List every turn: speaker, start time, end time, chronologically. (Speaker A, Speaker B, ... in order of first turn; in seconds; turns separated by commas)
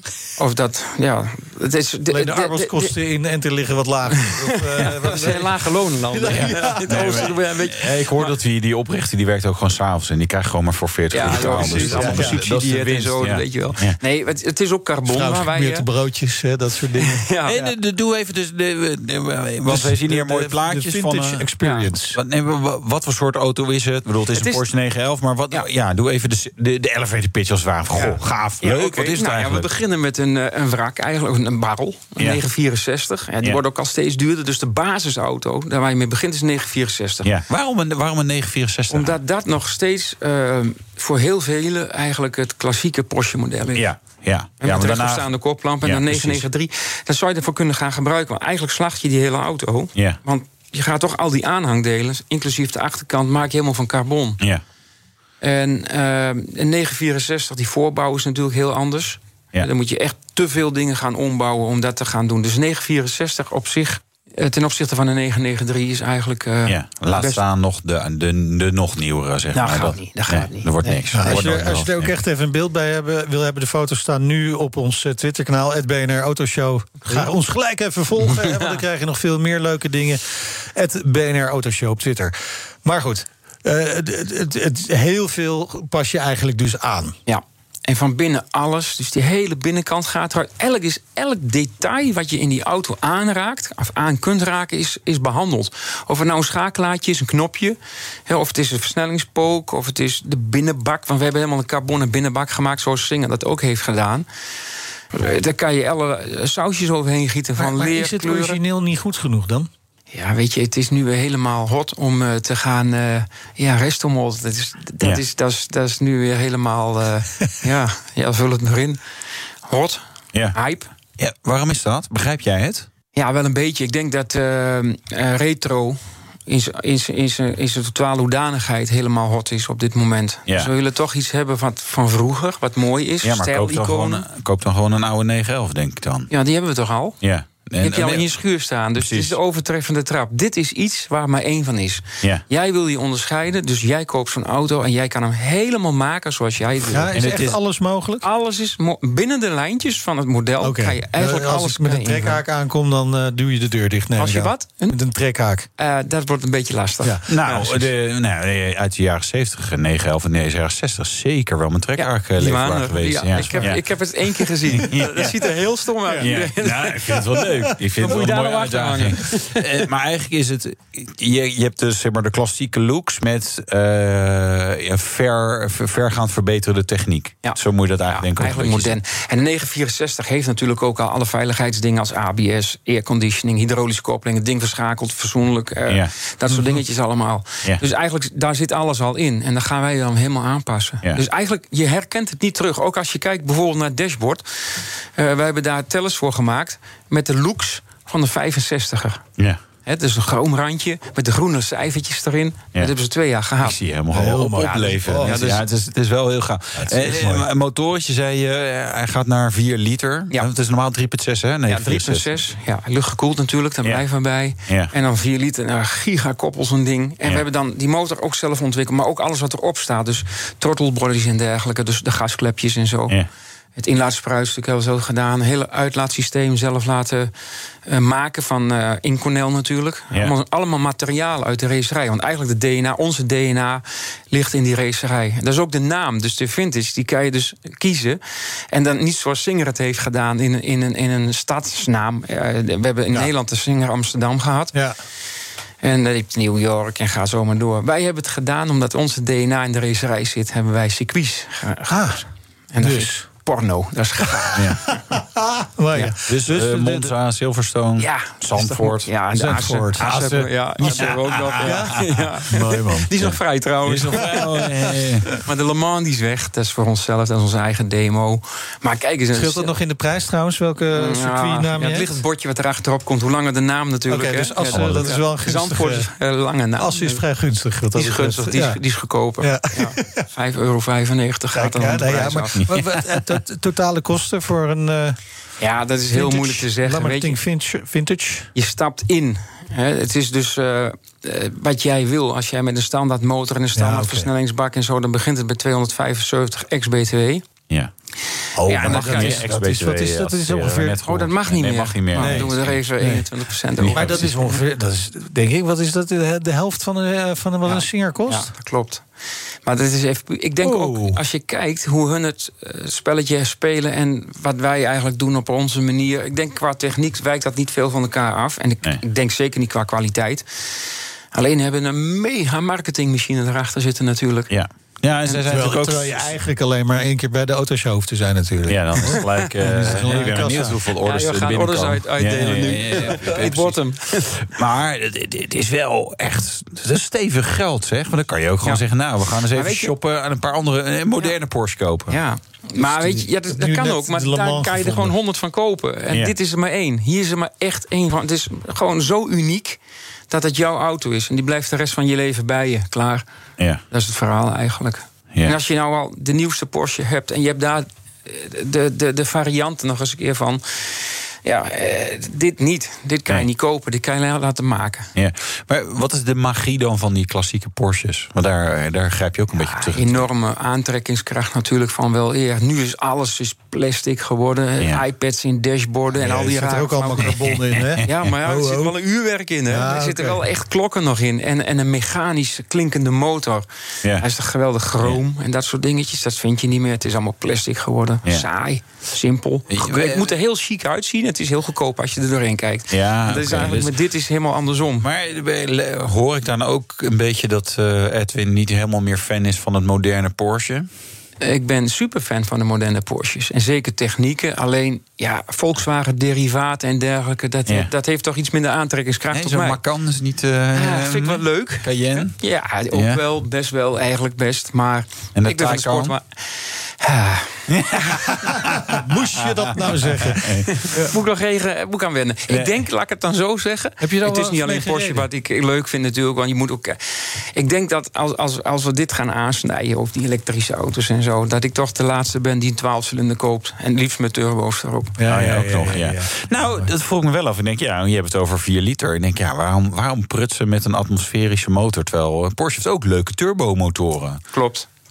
Speaker A: 0.4-3.0, Speaker B: 2.1-5.6, Speaker A: 4.1-8.3, Speaker B: 6.1-7.3, Speaker C: 6.2-14.0, Speaker A: 11.1-15.9, Speaker B: 11.2-12.5, Speaker B: 15.1-17.7, Speaker A: 17.0-17.5, Speaker C: 17.4-21.5, Speaker B: 19.6-22.2, Speaker A: 21.6-21.9, Speaker C: 22.1-29.7, Speaker A: 24.3-24.6, Speaker A: 27.9-37.3, Speaker C: 32.2-32.4, Speaker C: 37.2-39.2, Speaker A: 38.9-44.0, Speaker C: 43.7-46.5, Speaker A: 44.5-54.4, Speaker A: 55.4-67.4, Speaker C: 66.7-72.1, Speaker A: 69.5-71.6, Speaker B: 71.0-87.2, Speaker A: 78.3-78.8, Speaker A: 87.3-104.3, Speaker A: 105.2-108.6, Speaker B: 107.6-109.7, Speaker A: 110.1-119.0, Speaker A: 119.7-120.0, Speaker A: 120.5-120.9, Speaker C: 121.2-122.9, Speaker A: 123.1-134.3, Speaker C: 130.5-130.7, Speaker C: 133.2-136.3, Speaker A: 136.3-137.2, Speaker C: 137.2-138.3, Speaker A: 137.8-147.1, Speaker C: 138.9-139.4, Speaker C: 146.9-147.6, Speaker B: 146.9-148.3, Speaker A: 148.2-152.4, Speaker B: 150.6-155.7, Speaker A: 154.2-155.0, Speaker A: 155.8-157.9, Speaker C: 157.3-165.5, Speaker A: 162.0-167.5, Speaker B: 163.4-163.8, Speaker B: 166.1-166.3, Speaker C: 166.2-179.0, Speaker B: 167.1-168.2, Speaker A: 168.0-169.9, Speaker A: 177.4-199.2, Speaker C: 185.9-186.1, Speaker A: 199.9-203.8, Speaker C: 203.6-212.3, Speaker B: 204.1-205.6, Speaker A: 204.3-205.7, Speaker B: 206.8-207.5, Speaker A: 211.7-223.2, Speaker C: 214.7-214.9, Speaker A: 223.8-227.3, Speaker A: 227.9-238.2, Speaker A: 238.7-244.8, Speaker A: 245.8-254.7, Speaker B: 251.9-252.2, Speaker B: 252.8-253.3, Speaker C: 254.6-254.9, Speaker B: 255.1-257.1, Speaker C: 256.3-262.4, Speaker A: 258.0-269.7, Speaker B: 259.3-263.1, Speaker C: 263.2-265.3, Speaker B: 264.1-264.9, Speaker B: 269.3-272.1, Speaker A: 270.9-277.2, Speaker B: 274.1-276.1, Speaker C: 274.7-275.2, Speaker B: 276.8-278.8, Speaker A: 277.9-282.7, Speaker B: 279.4-280.2, Speaker B: 281.5-285.2, Speaker A: 285.6-287.4, Speaker B: 286.1-288.5, Speaker A: 288.6-297.5, Speaker B: 293.8-294.3, Speaker B: 298.6-301.0, Speaker C: 298.6-302.9, Speaker A: 298.7-299.7, Speaker A: 301.0-304.6, Speaker B: 302.1-303.3, Speaker C: 303.8-304.4, Speaker B: 303.8-308.5, Speaker A: 307.6-309.1, Speaker A: 309.6-320.5, Speaker B: 310.6-311.2, Speaker A: 321.3-324.5, Speaker C: 324.5-326.4, Speaker B: 325.3-330.8, Speaker C: 328.7-342.2, Speaker A: 329.1-329.5, Speaker A: 331.0-334.5, Speaker A: 339.4-339.9, Speaker A: 342.1-349.8, Speaker C: 342.8-343.3, Speaker B: 343.5-345.1, Speaker C: 346.1-346.4, Speaker A: 350.3-353.2, Speaker A: 353.9-365.1, Speaker C: 365.1-370.3, Speaker A: 369.6-377.4, Speaker C: 374.8-375.0, Speaker B: 376.1-379.0, Speaker C: 377.2-378.3, Speaker A: 378.0-383.6, Speaker B: 379.7-380.4, Speaker A: 384.2-395.1, Speaker C: 389.7-390.3, Speaker C: 392.9-394.0, Speaker C: 395.0-400.9, Speaker A: 401.4-409.8, Speaker C: 407.6-407.9, Speaker C: 409.3-412.4, Speaker A: 410.7-417.8, Speaker C: 412.9-413.2, Speaker C: 415.4-416.2, Speaker C: 417.7-421.0, Speaker B: 418.7-421.1, Speaker A: 421.0-427.0, Speaker C: 422.5-422.9, Speaker B: 424.0-425.3, Speaker A: 427.6-435.2, Speaker B: 435.2-436.3, Speaker C: 435.3-444.4, Speaker A: 444.5-444.9